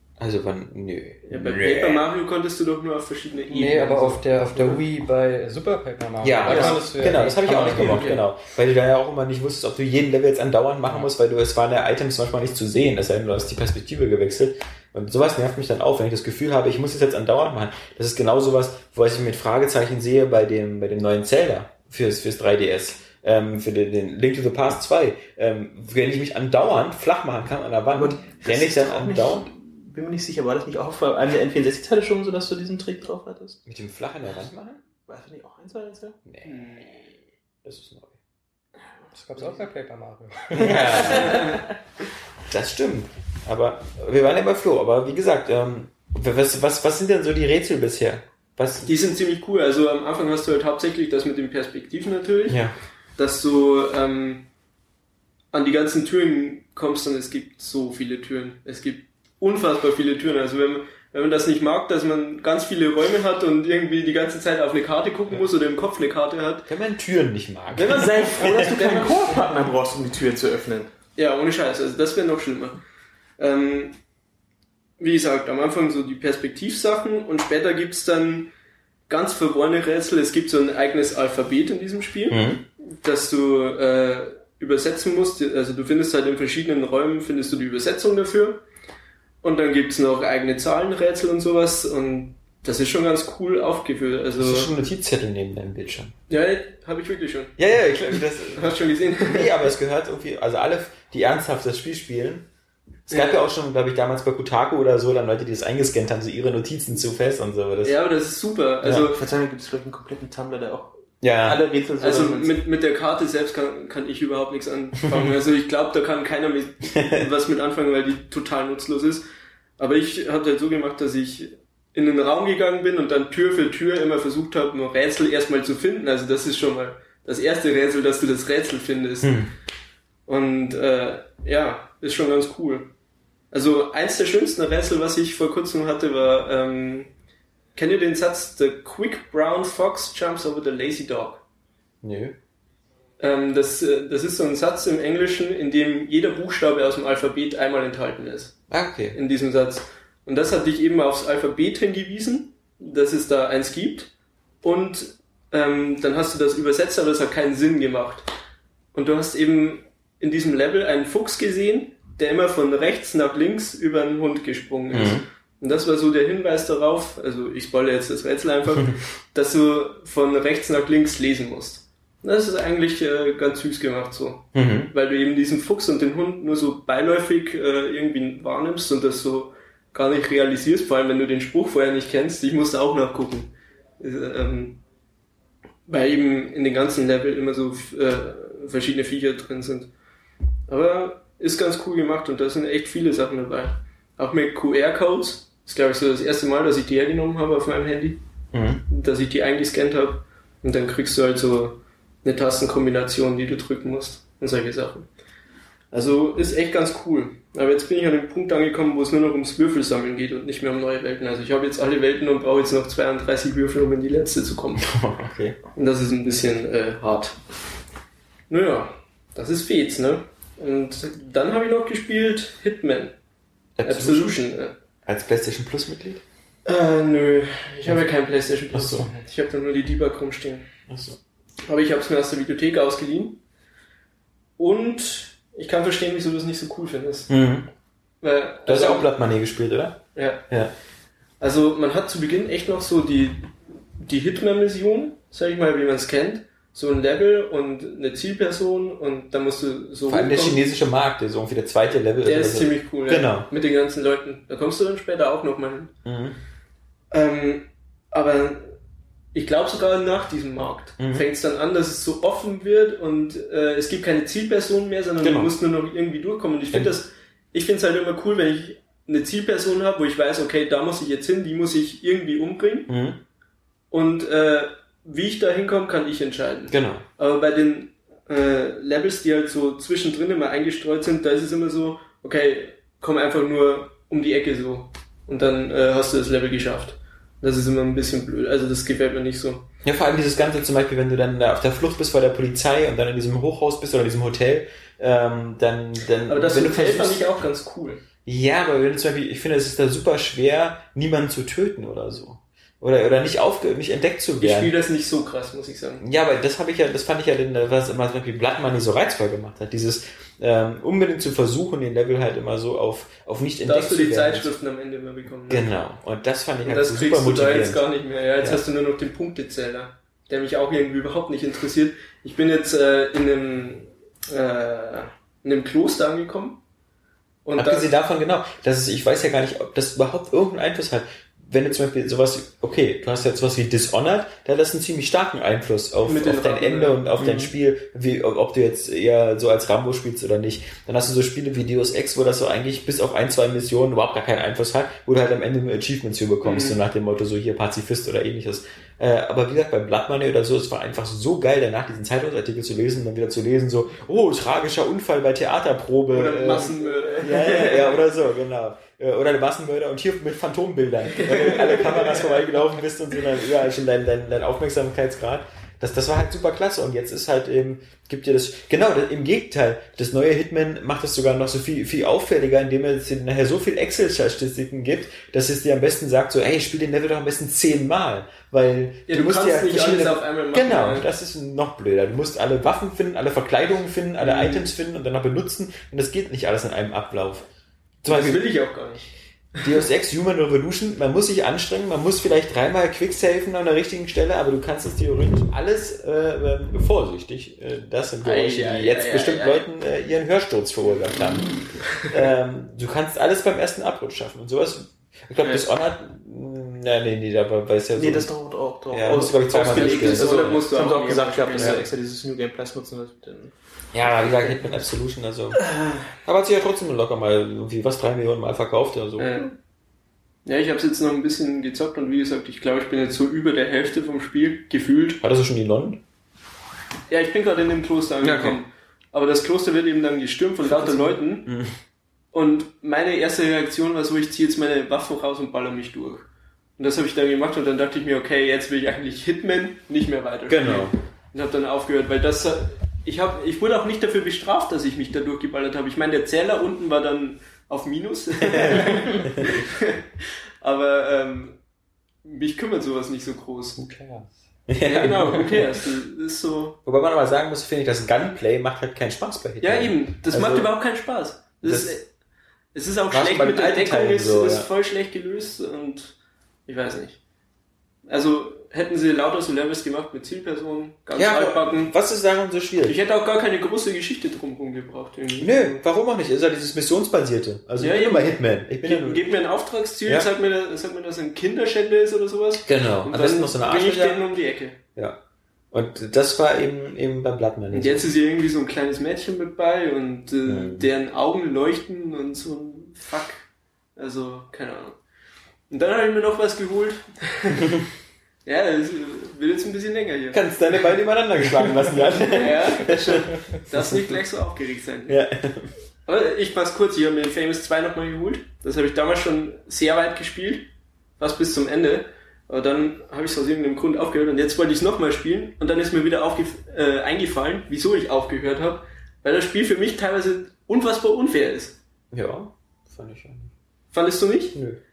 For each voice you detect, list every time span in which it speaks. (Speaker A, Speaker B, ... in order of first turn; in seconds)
Speaker A: 0.2-2.0, 6.2-29.5, 33.6-34.8, 36.2-36.6, 37.6-38.1, 40.5-41.6, 42.5-48.9, 52.5-52.7, 66.7-69.0, 82.3-82.6, 94.4-96.1, 97.6-102.5, 103.1-108.0, 108.8-109.1, 111.2-111.6, 129.2-129.5, 142.0-142.3, 148.7-149.2, 164.9-165.2, 174.5-174.9, 198.5-198.8, 214.8-215.6, 223.8-224.4, 225.1-226.2, 228.7-229.1, 230.9-231.2, 237.3-237.7, 238.7-240.7, 250.1-253.5, 256.0-256.4, 261.0-261.2, 265.2-265.5, 272.9-273.2, 276.7-277.0, 289.8-297.2, 298.2-304.7, 306.0-314.5, 315.5-317.8, 327.6-387.4, 388.0-388.4, 389.6-408.3, 408.9-410.6, 411.6-411.8, 413.9-415.6, 416.2-419.5, 425.2-426.0, 428.2-428.6, 431.4-431.7, 440.5-440.9, 448.5-449.6, 454.7-455.6, 456.8-460.7, 461.6-462.0, 463.1-464.6, 471.1-472.9, 475.4-479.2, 482.6-484.2, 485.7-488.1, 490.4-490.9, 500.3-504.0, 505.1-505.7, 522.1-523.5, 524.5-524.8
Speaker B: 1.3-4.8, 36.4-37.0, 48.9-52.6, 53.2-54.5, 55.5-66.7, 71.2-72.8, 73.4-74.0, 75.0-78.5, 79.1-88.6, 89.4-94.7, 96.3-99.6, 103.1-103.4, 107.8-109.2, 112.0-119.2, 119.8-129.3, 130.3-132.9, 133.5-137.1, 137.7-141.4, 143.2-148.6, 149.1-154.1, 154.6-158.3, 158.9-184.8, 185.9-189.9, 190.7-198.2, 198.9-205.1, 205.9-214.8, 215.8-217.4, 218.5-223.1, 223.8-224.7, 226.6-230.7, 231.6-233.4, 234.6-237.3, 238.2-239.1, 240.1-240.4, 241.4-250.6, 252.2-255.9, 257.1-258.7, 259.3-272.9, 273.9-289.6, 296.3-298.0, 304.4-306.0, 313.6-315.7, 316.6-326.6, 327.4-327.9, 336.0-337.1, 346.4-346.8, 356.1-358.0, 361.3-362.2, 379.1-381.1, 384.2-384.7, 388.1-389.1, 398.2-399.6, 409.5-411.8, 419.2-419.5, 420.4-425.2, 427.1-431.5, 432.3-451.6, 452.2-453.8, 454.8-456.8, 459.6-462.1, 462.7-467.2, 468.1-471.9, 472.8-475.8, 477.8-484.8, 487.7-493.4, 493.9-495.0, 495.7-497.7, 498.4-500.4, 502.3-505.2, 506.1-510.7, 511.2-521.8, 523.9-524.5
Speaker C: 3.5-8.2, 39.1-41.1, 453.8-454.3
Speaker D: 3.6-4.0, 6.5-6.8, 27.9-33.6, 35.0-36.2, 38.8-39.7, 40.6-41.7, 67.7-70.9, 109.1-112.6, 337.2-337.5, 407.9-414.6, 430.7-431.1